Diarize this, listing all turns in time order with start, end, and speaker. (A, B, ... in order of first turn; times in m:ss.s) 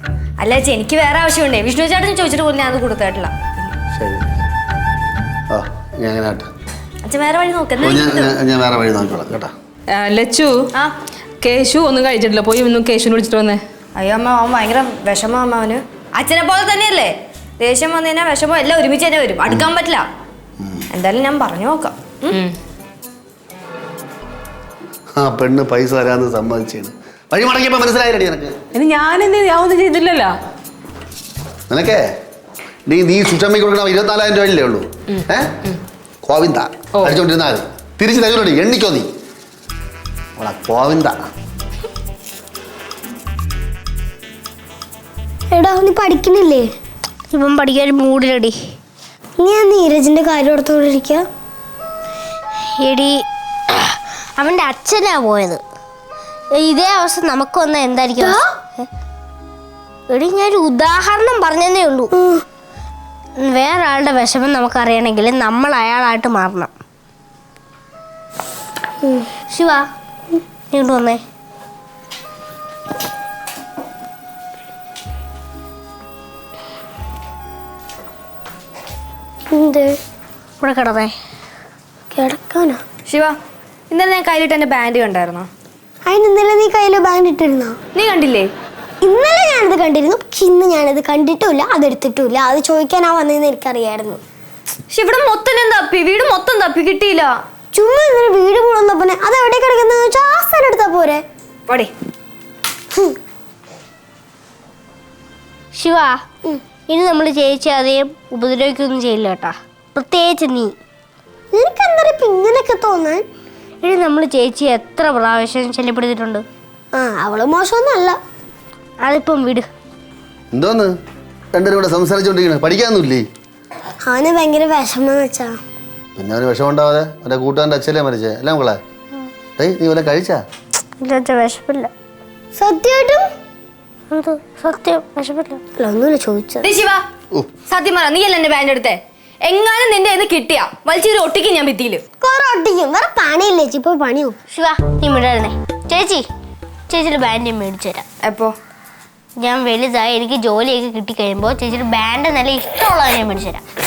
0:00.4-0:03.7 A
0:03.9-0:04.3 B
0:05.5-0:06.5 B
0:07.0-0:08.3 A
0:07.8-0:09.5 B
0:09.9-0:10.6 C
0:11.4-0:13.6 C
0:13.9-0:20.1 A
0:20.6-0:20.8 B
0:20.9-0:22.4 A
0:25.2-0:28.5 B
0:28.7-0:30.3 C
0:31.7-0:32.0 B
0:32.9-0:35.5 B
0:36.2-0:39.1 B
0:40.4-0:41.2 B
0:45.5-0:46.6 D
0:47.3-0:48.6 E
0:49.4-0:51.2 D
0:52.8-0:55.6 E
0:56.5-0:58.9 E
1:00.1-1:02.1 E
1:02.2-1:02.4 D
1:03.4-1:06.7 E
1:09.5-1:09.9 E
1:10.7-1:11.2 E
1:19.5-1:19.9 D
1:20.6-1:21.1 E
1:22.1-1:22.8 D
1:23.1-1:23.3 A
1:23.9-1:25.5 A
1:26.0-1:27.8 D
1:27.9-1:28.5 A
1:29.0-1:34.2 D
1:34.9-1:37.4 A
1:37.7-1:41.2 D
1:45.7-1:46.2 E
1:46.9-1:50.7 E
1:51.5-1:53.2 D
1:53.8-1:56.4 E
1:56.9-1:58.2 D
1:59.0-1:59.7 E
2:00.5-2:00.9 B
2:01.5-2:03.2 B
2:04.0-2:05.5 D
2:06.2-2:08.8 B
2:09.6-2:10.4 B
2:11.0-2:11.9 E
2:12.6-2:13.2 D
2:14.1-2:15.6 E
2:15.8-2:16.7 D
2:16.6-2:17.0 A
2:17.7-2:22.0 A
2:22.2-2:24.4 D
2:24.5-2:26.2 E
2:26.9-2:28.0 E
2:28.2-2:28.5 A
2:29.4-2:33.6 E